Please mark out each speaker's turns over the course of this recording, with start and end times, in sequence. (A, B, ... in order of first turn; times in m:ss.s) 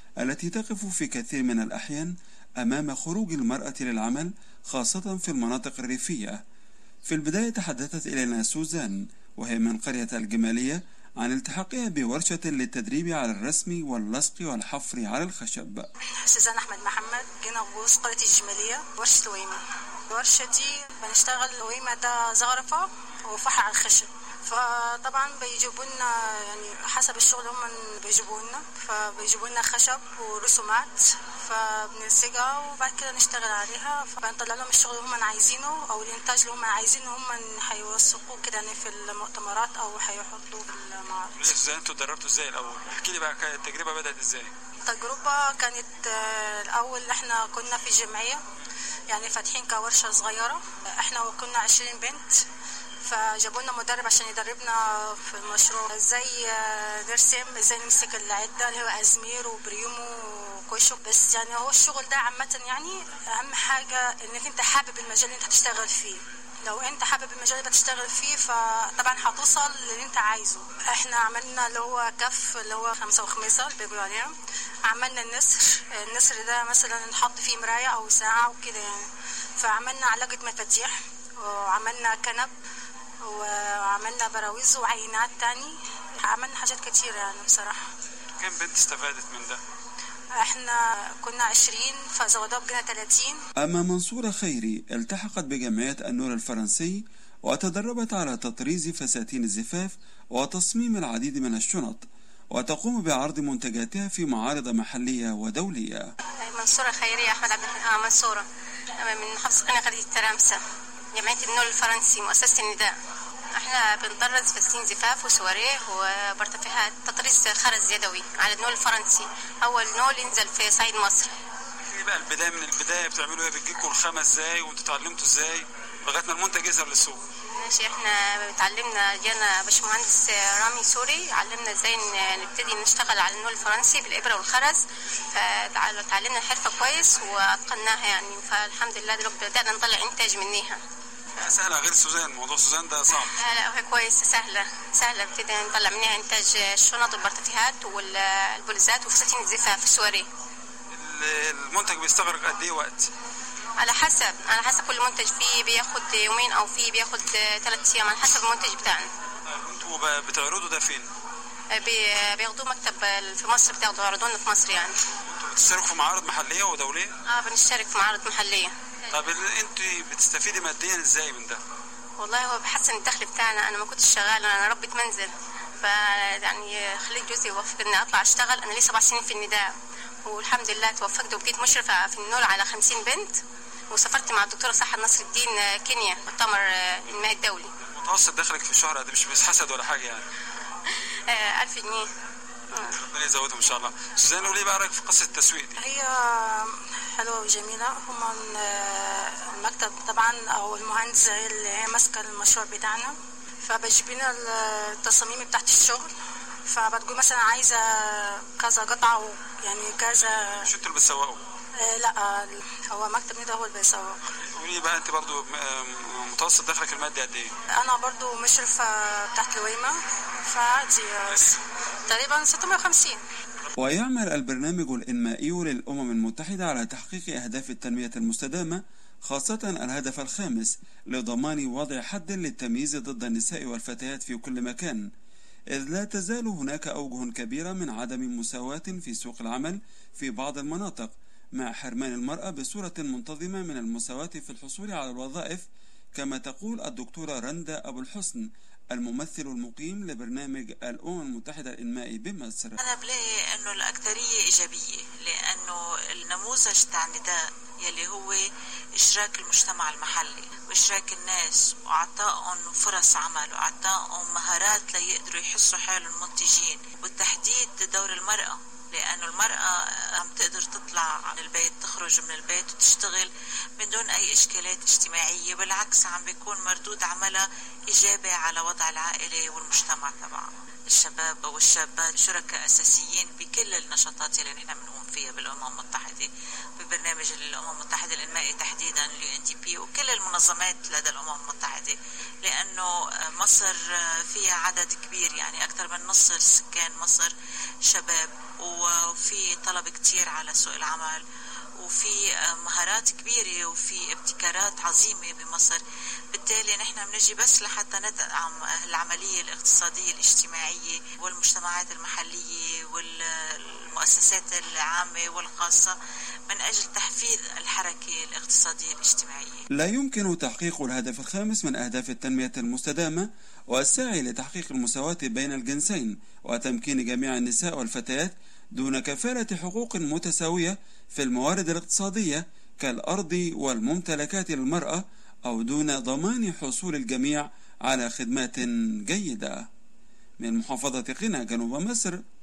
0:00.2-0:06.4 A
0:07.0-0:15.9 A
0:16.3-0:41.5 B
0:41.4-0:44.5 C
0:44.8-0:48.4 B
0:49.1-0:52.4 B
0:53.0-1:14.3 B
1:14.8-1:19.0 B
1:19.6-1:22.5 B
1:23.2-1:27.8 B
1:28.4-1:29.6 C
1:30.4-1:33.4 B
1:33.6-1:46.1 A
1:46.4-1:48.4 D
1:49.0-1:50.6 D
1:51.1-1:52.9 D
1:53.6-2:01.3 D
2:01.8-2:07.2 C
2:07.6-2:14.8 D
2:15.3-2:20.8 D
2:21.4-2:23.3 C
2:23.2-2:30.3 D
2:30.9-2:33.1 C
2:33.8-2:39.1 D
2:39.4-2:41.1 C
2:41.7-2:44.9 D
2:45.2-2:47.1 C
2:47.3-2:48.7 D
2:49.1-2:51.6 C
2:52.2-2:55.3 D
2:55.8-2:59.7 D
3:00.2-3:07.7 D
3:07.9-3:10.2 C
3:10.9-3:12.1 D
3:12.9-3:15.8 C
3:15.8-3:26.1 B
3:26.7-3:30.7 B
3:30.6-3:31.4 C
3:31.8-3:34.2 B
3:34.4-3:37.5 C
3:37.8-3:40.0 B
3:40.5-3:43.2 B
3:43.8-3:55.1 A
3:55.7-4:12.8 A
4:12.8-4:18.4 E
4:19.0-4:57.3 E
4:57.9-5:01.2 E
5:01.8-5:05.8 E
5:06.3-5:16.0 E
5:16.5-5:19.6 E
5:19.8-5:39.6 A
5:40.4-5:42.2 A